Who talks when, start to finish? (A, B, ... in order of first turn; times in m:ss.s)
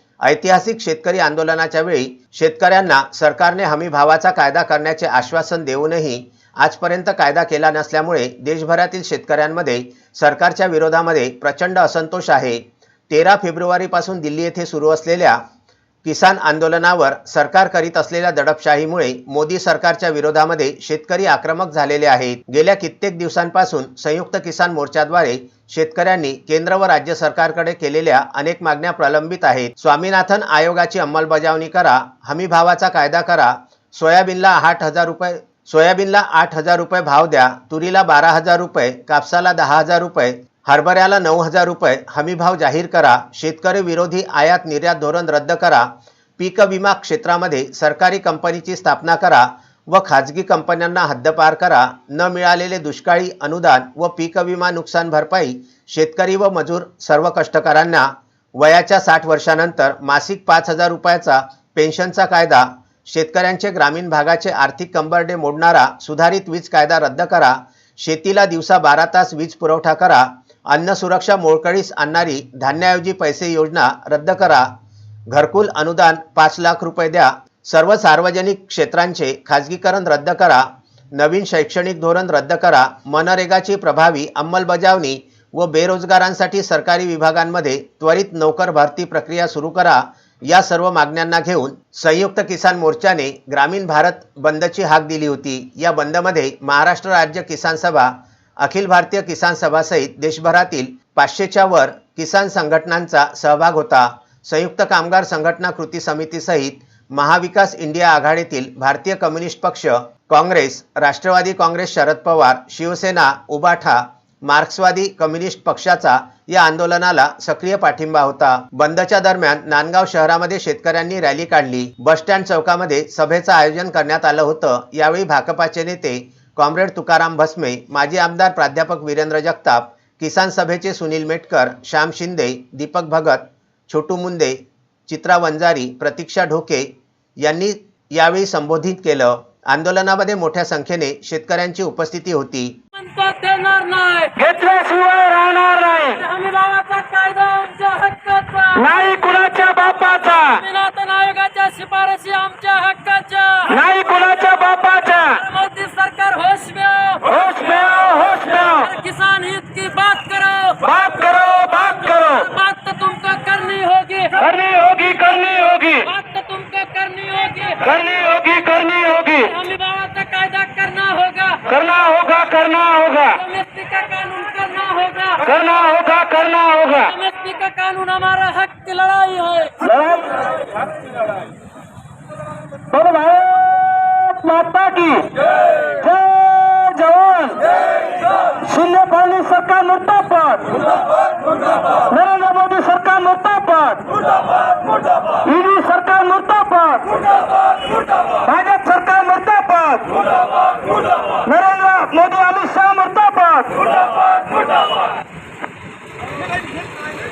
0:00.2-0:15.4 A
0:16.0-1:14.7 A
1:15.3-2:22.8 A
2:23.0-2:24.4 B
2:24.3-2:26.2 C
2:26.1-2:33.7 B
2:28.8-2:30.6 C
2:33.7-2:35.4 C
2:35.3-2:37.4 B
2:37.2-2:38.8 C
2:38.6-2:40.8 B
2:40.8-2:42.5 C
2:42.2-2:45.0 B
2:44.4-2:46.1 C
2:46.0-2:48.0 B
2:47.8-2:49.6 C
2:49.4-2:51.7 B
2:51.6-2:53.4 C
2:53.3-2:55.5 B
2:55.4-2:57.1 C
2:57.0-2:59.9 B
2:59.8-3:00.4 C
3:02.9-3:07.8 C
3:08.5-3:10.9 C
3:11.9-3:14.2 C
3:15.3-3:17.3 C
3:18.3-3:20.2 C
3:21.3-3:23.8 C